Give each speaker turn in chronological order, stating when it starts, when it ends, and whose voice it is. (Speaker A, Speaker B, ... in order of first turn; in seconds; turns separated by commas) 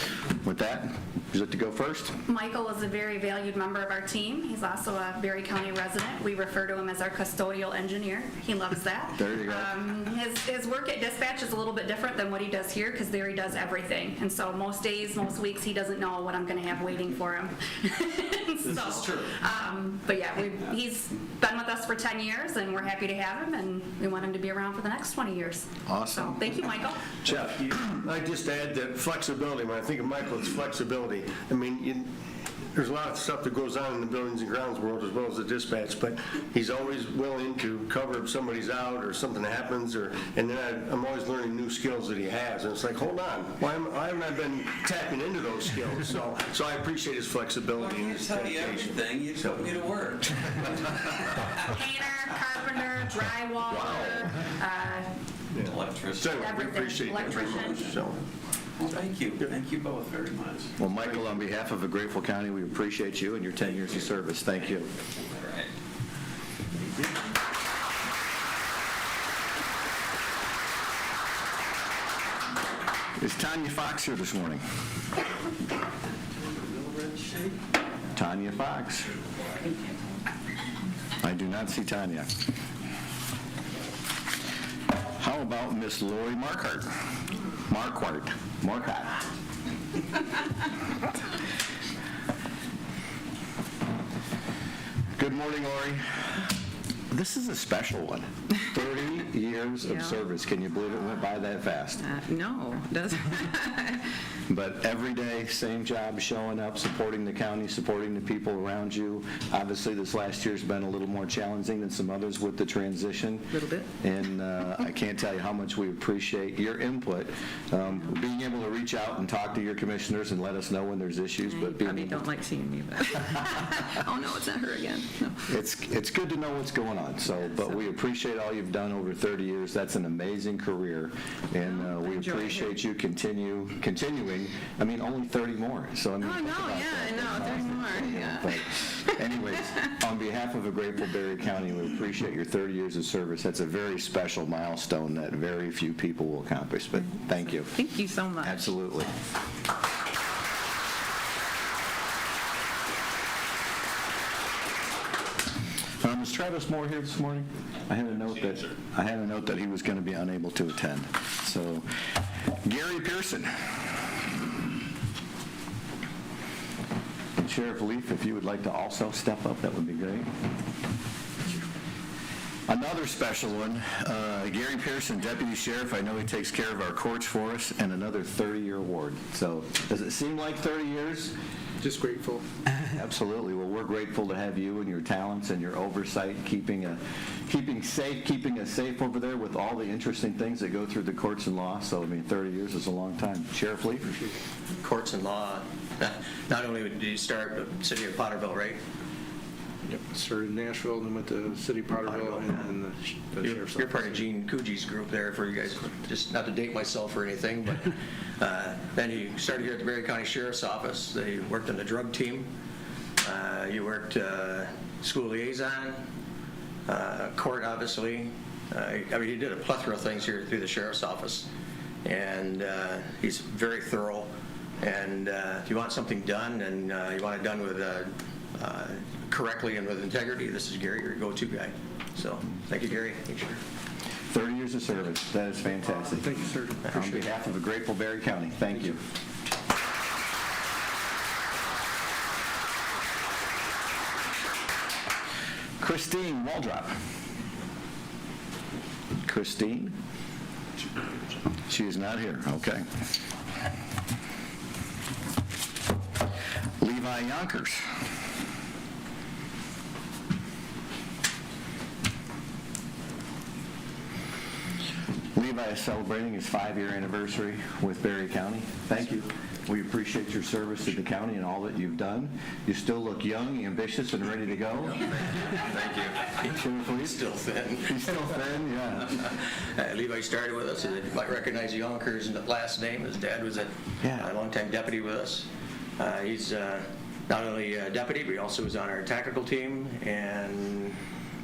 Speaker A: 0.4-2.1, Speaker B: 2.3-27.2, Speaker A: 9.2-9.7, Speaker A: 25.9-26.4, Speaker C: 27.3-32.1, Speaker C: 32.8-49.8, Speaker D: 47.8-51.0, Speaker B: 51.6-55.1, Speaker A: 53.7-54.2, Speaker C: 55.5-58.2, Speaker D: 55.7-56.4, Speaker B: 56.3-58.0, Speaker D: 57.2-58.1, Speaker D: 58.8-60.8, Speaker A: 60.8-64.9, Speaker D: 63.7-64.1, Speaker D: 65.2-65.7, Speaker A: 73.2-74.6, Speaker A: 78.2-79.1, Speaker A: 81.2-82.3, Speaker A: 85.2-86.9, Speaker A: 87.7-89.2, Speaker A: 95.2-96.2, Speaker A: 97.1-102.0, Speaker E: 99.8-100.2, Speaker E: 102.0-104.1, Speaker A: 104.5-122.2, Speaker E: 113.5-113.9, Speaker E: 121.5-125.5, Speaker A: 125.5-147.7, Speaker E: 131.6-132.8, Speaker E: 136.2-139.2, Speaker E: 147.3-148.7, Speaker A: 148.4-149.1, Speaker A: 156.0-161.8, Speaker A: 162.6-163.7, Speaker A: 167.4-170.3, Speaker A: 172.7-181.3, Speaker F: 181.8-182.4, Speaker A: 182.8-194.2, Speaker G: 194.8-198.8, Speaker F: 199.9-204.1, Speaker G: 202.0-202.8, Speaker G: 203.4-212.5, Speaker G: 213.2-216.0, Speaker G: 216.9-221.5, Speaker G: 222.1-233.6, Speaker A: 234.3-239.0, Speaker F: 236.0-236.8, Speaker A: 245.8-246.9, Speaker A: 249.2-249.9, Speaker A: 251.7-252.8, Speaker A: 256.8-257.8, Speaker A: 265.4-275.0, Speaker G: 275.0-278.2, Speaker A: 276.5-277.2, Speaker A: 277.9-279.1, Speaker G: 279.1-291.0, Speaker A: 284.0-284.3